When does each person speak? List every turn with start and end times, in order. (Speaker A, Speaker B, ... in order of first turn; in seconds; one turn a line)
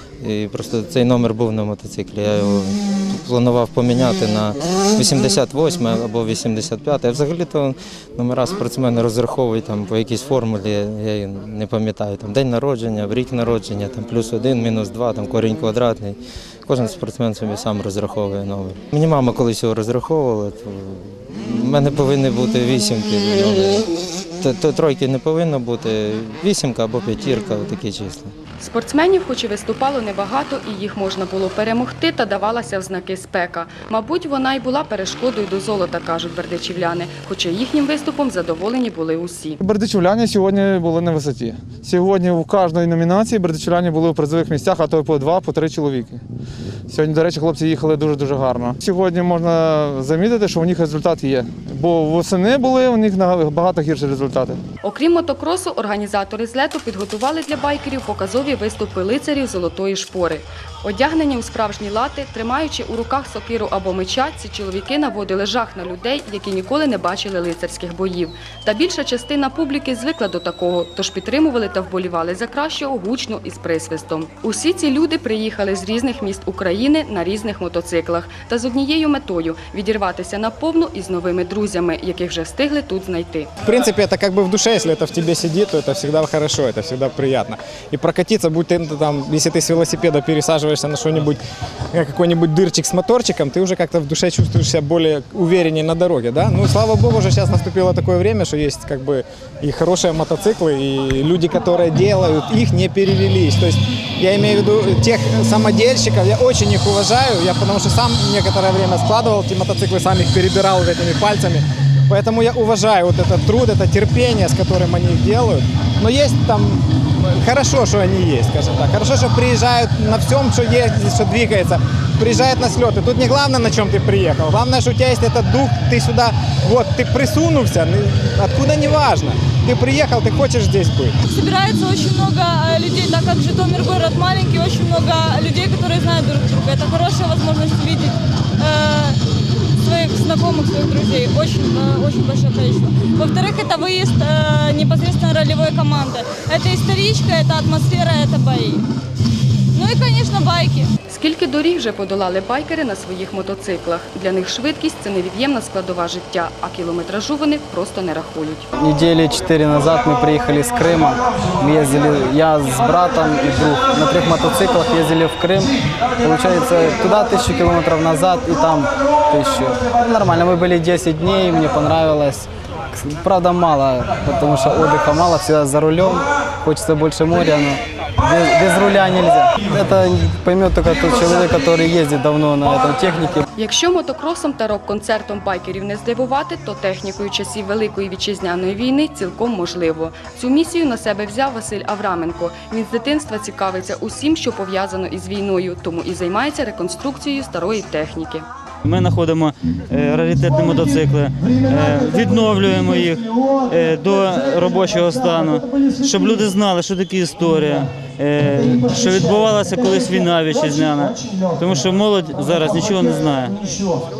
Speaker A: 0.2-28.3
Speaker B: 28.6-39.6
Speaker C: 39.6-46.2
Speaker C: 46.9-54.6
Speaker B: 54.8-83.5
Speaker D: 83.6-91.4
Speaker D: 91.9-131.2
Speaker E: 131.3-139.2
Speaker E: 139.8-148.8
Speaker E: 149.7-150.9
Speaker B: 151.1-158.7
Speaker F: 158.8-183.4
Speaker B: 183.6-198.4
Speaker G: 198.8-213.8